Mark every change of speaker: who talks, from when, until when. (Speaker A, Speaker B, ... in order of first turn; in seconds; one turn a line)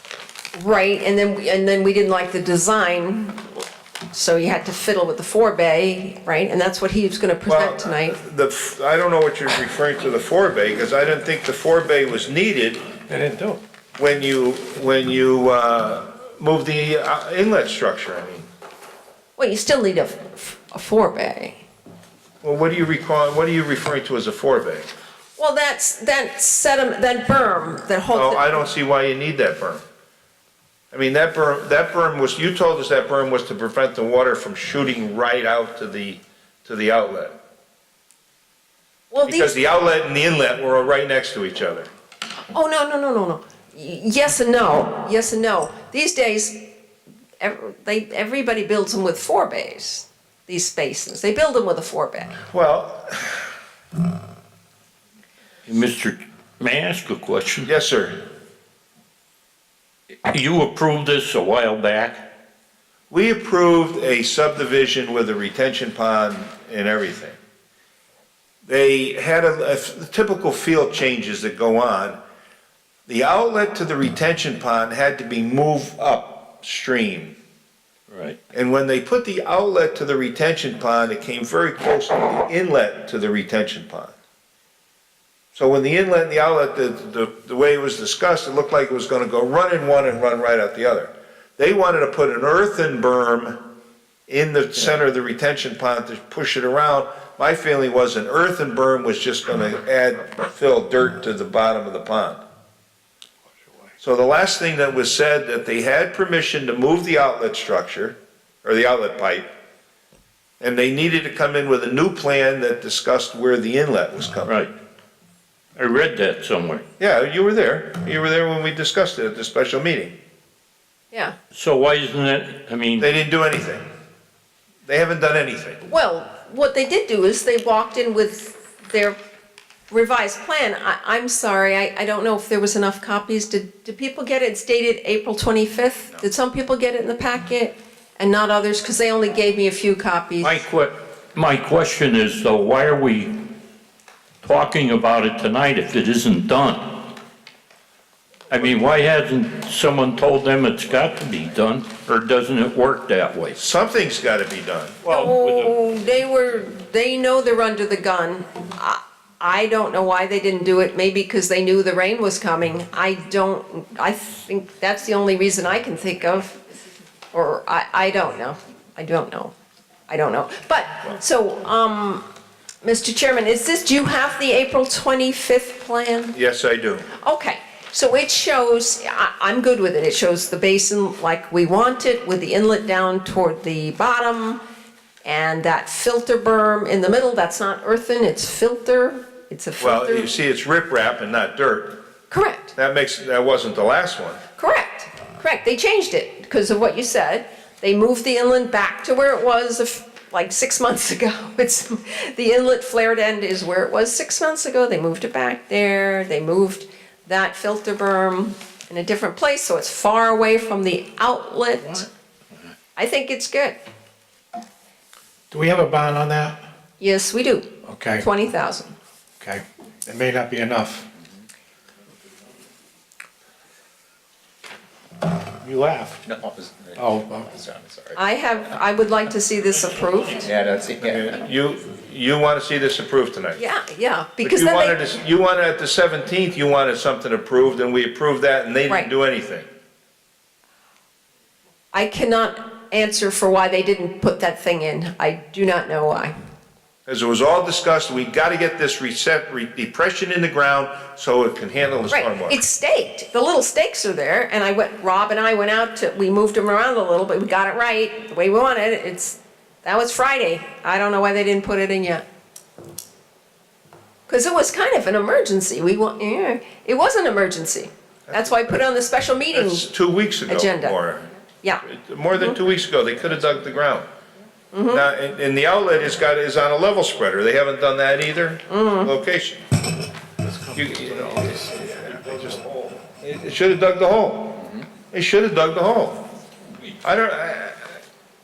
Speaker A: 0.5-3.5
Speaker A: 4.1-8.2
Speaker B: 7.5-12.9
Speaker C: 13.1-13.6
Speaker B: 14.0-18.4
Speaker A: 19.4-21.6
Speaker B: 22.4-24.9
Speaker A: 25.4-28.6
Speaker B: 28.1-29.8
Speaker B: 30.9-37.4
Speaker A: 39.1-39.5
Speaker B: 39.2-41.9
Speaker A: 42.5-46.7
Speaker A: 47.4-52.4
Speaker B: 52.4-53.5
Speaker D: 55.6-57.7
Speaker B: 57.6-58.3
Speaker D: 60.3-62.3
Speaker B: 63.1-67.3
Speaker B: 68.7-72.2
Speaker B: 73.1-77.4
Speaker D: 78.1-78.4
Speaker B: 78.5-84.1
Speaker B: 85.5-93.8
Speaker B: 94.3-102.4
Speaker B: 104.0-109.5
Speaker B: 110.6-114.5
Speaker D: 114.4-114.7
Speaker D: 115.8-116.8
Speaker B: 117.0-120.2
Speaker D: 121.5-123.1
Speaker B: 123.0-123.8
Speaker B: 124.9-125.8
Speaker A: 125.9-129.2
Speaker A: 129.9-140.6
Speaker D: 140.4-143.6
Speaker D: 144.4-147.2
Speaker D: 148.5-153.6
Speaker B: 153.6-155.0
Speaker D: 155.0-155.7
Speaker A: 155.1-166.6
Speaker A: 167.3-169.5
Speaker A: 170.1-172.2
Speaker A: 172.8-176.3
Speaker B: 176.3-177.1
Speaker A: 177.2-184.6
Speaker A: 185.2-190.3
Speaker B: 189.8-192.1
Speaker A: 192.3-192.7
Speaker B: 192.8-194.4
Speaker A: 194.6-212.1
Speaker A: 212.9-213.8
Speaker C: 215.5-216.6
Speaker A: 217.0-218.9
Speaker C: 217.8-218.2
Speaker C: 219.4-221.1
Speaker C: 225.5-226.2
Speaker E: 226.2-228.2
Speaker C: 226.9-227.5
Speaker A: 228.2-230.5
Speaker D: 229.8-230.5
Speaker E: 230.4-231.3
Speaker B: 231.0-233.6
Speaker A: 233.6-235.0
Speaker B: 234.4-239.7
Speaker A: 241.9-246.3
Speaker B: 247.1-252.6
Speaker A: 252.1-262.2
Speaker A: 264.3-269.9
Speaker B: 268.3-268.8
Speaker B: 269.5-271.3
Speaker A: 270.5-271.0
Speaker B: 271.8-274.1
Speaker A: 274.7-275.0
Speaker B: 274.9-279.6
Speaker A: 278.7-279.1
Speaker E: 280.4-281.8
Speaker B: 280.7-286.3
Speaker B: 287.0-287.9